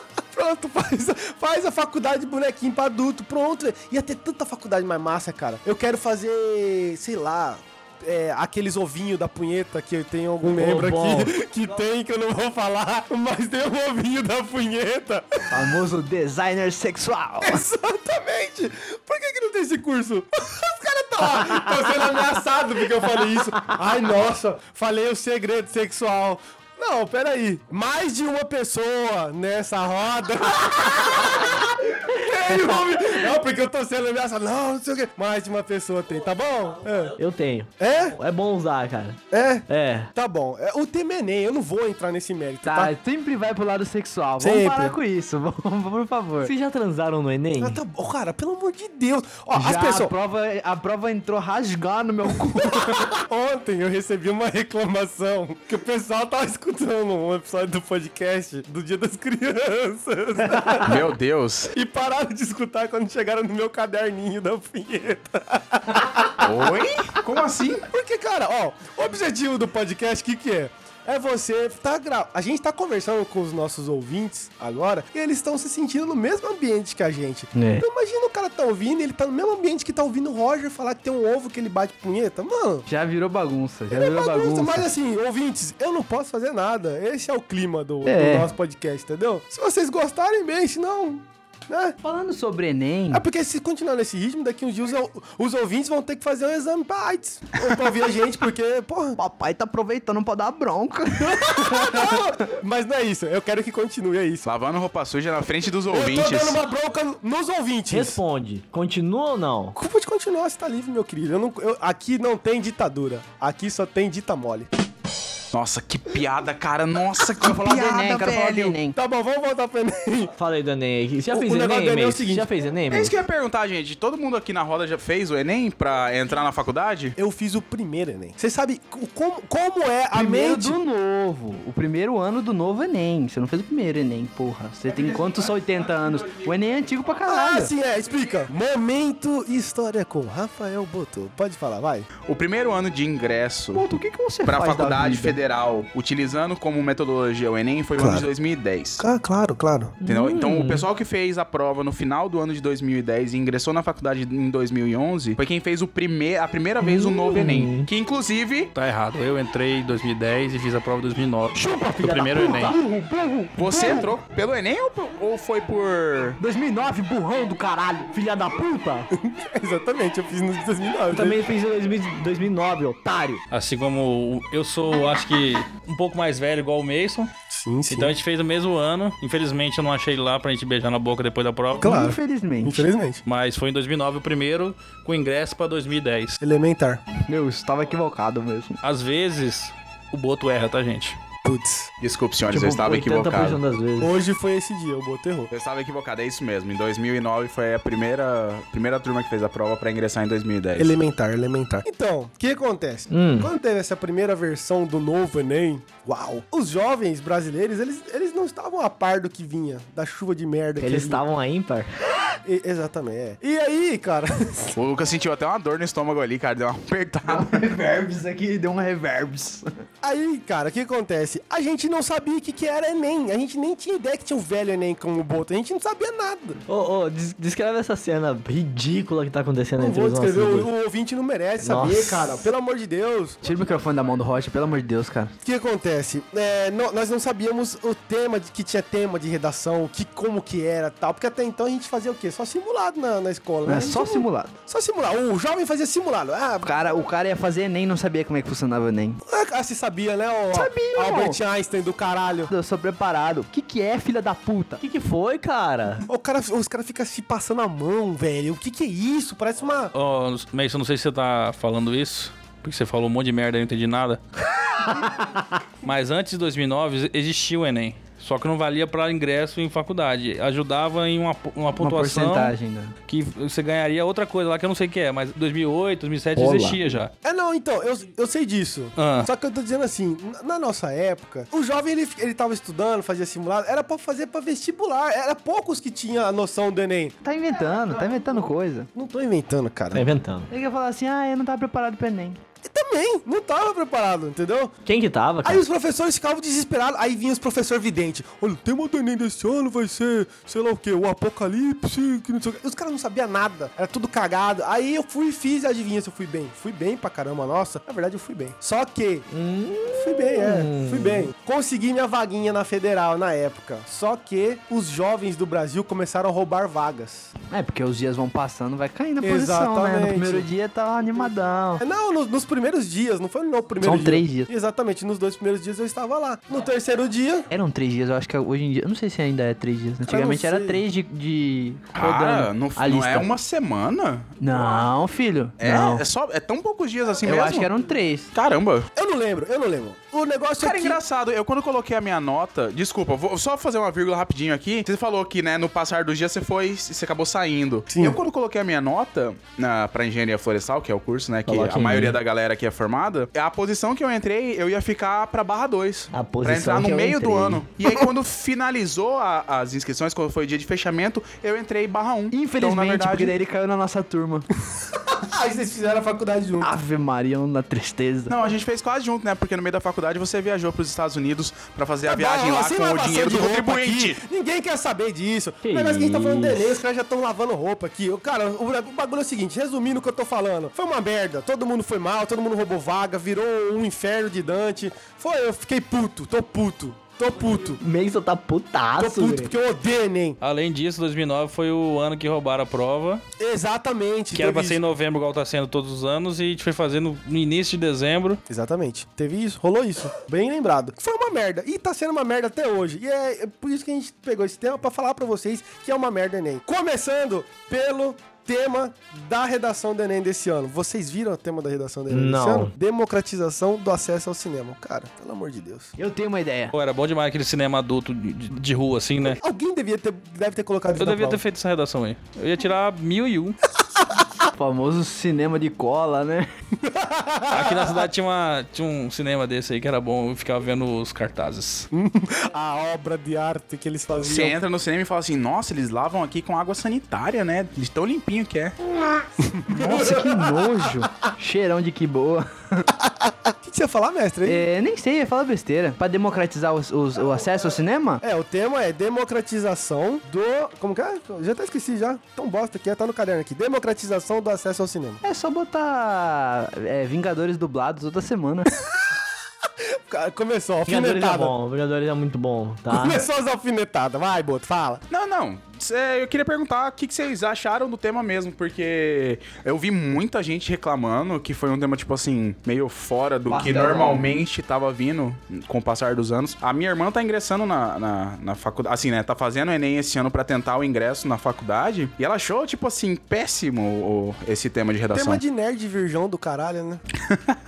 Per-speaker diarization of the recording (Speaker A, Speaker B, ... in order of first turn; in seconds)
Speaker A: 0.3-15.7, 17.4-37.2, 37.8-38.2, 39.3-42.9, 44.4-45.0, 47.6-50.1, 52.5-61.0, 61.7-66.7, 67.9-82.9, 83.9-92.0, 93.1-99.2, 101.2-104.5, 105.9-108.2, 109.8-114.7, 118.9-120.3, 121.3-122.5, 127.2-130.8, 137.3-142.1, 148.0-148.3, 149.0-149.9, 169.1-171.4, 177.5-178.1, 181.8-183.2, 186.4-187.0, 191.4-191.9, 194.0-195.5, 200.8-211.2, 212.4-214.8, 220.0-226.6, 229.8-233.4, 235.4-246.8, 249.3-252.5, 256.1-259.9, 277.2-288.1, 288.9-290.1, 292.6-294.7, 295.4-309.3, 309.9-317.3, 319.2-320.5, 321.8-327.5, 330.1-330.8, 339.0-341.0, 347.9-348.2, 364.8-366.7, 372.0-387.8, 389.0-390.4, 393.4-394.8, 398.5-415.9, 419.2-421.4, 426.8-428.1, 431.9-434.6, 439.4-440.8, 443.1-444.7, 448.2-455.2, 459.6-461.6, 462.9-465.0, 485.1-487.0
Speaker B: 10.5-11.3, 37.2-40.1, 46.4-47.8, 107.9-109.8, 120.4-123.2, 150.0-150.9, 156.8-157.9, 161.6-162.7, 166.4-167.0, 168.1-169.1, 171.1-173.4, 192.5-194.1, 203.1-203.5, 210.8-211.9, 226.7-230.7, 231.6-232.4, 254.8-256.1, 276.4-276.8, 289.9-290.5, 294.9-295.6, 309.3-311.3, 351.5-352.2, 356.1-357.6, 375.6-376.8, 387.7-389.5, 412.1-412.7, 460.9-463.2
Speaker C: 15.5-17.6, 42.6-46.5, 49.5-53.1, 77.5-77.8, 82.9-84.9, 88.1-88.5, 92.0-93.2, 99.2-102.3, 117.4-119.0, 130.1-137.7, 143.7-145.4, 161.6-164.1, 166.4-168.1, 181.8-182.9, 187.2-188.8, 217.3-219.7, 233.4-235.3, 243.7-244.5, 246.6-249.2, 250.5-251.4, 252.5-254.8, 271.8-272.9, 287.2-288.9, 290.5-292.4, 317.5-321.8, 323.8-324.5, 327.5-333.3, 334.4-336.1, 337.2-338.3, 362.3-364.5, 366.6-368.4, 416.0-416.8, 424.5-426.5, 439.7-442.9, 444.5-448.2, 455.2-458.7, 473.5-474.3
Speaker D: 60.8-61.7, 66.4-67.9, 104.4-106.6, 115.5-118.8, 122.9-127.2, 142.2-143.8, 144.4-149.0, 150.0-158.7, 163.6-166.4, 192.0-193.6, 195.5-200.9, 214.8-217.7, 331.9-334.4, 335.6-337.7, 338.3-338.9, 340.6-363.4, 368.3-374.2, 434.2-438.8, 465.1-485.4, 487.3-487.6
Speaker E: 158.8-162.8, 173.5-177.3, 177.9-181.9, 183.3-186.4, 188.8-191.2, 259.9-264.2, 265.8-272.5, 273.1-277.1, 279.0-279.3, 390.4-393.2, 394.3-398.4, 416.7-419.4, 421.0-423.6, 427.5-431.9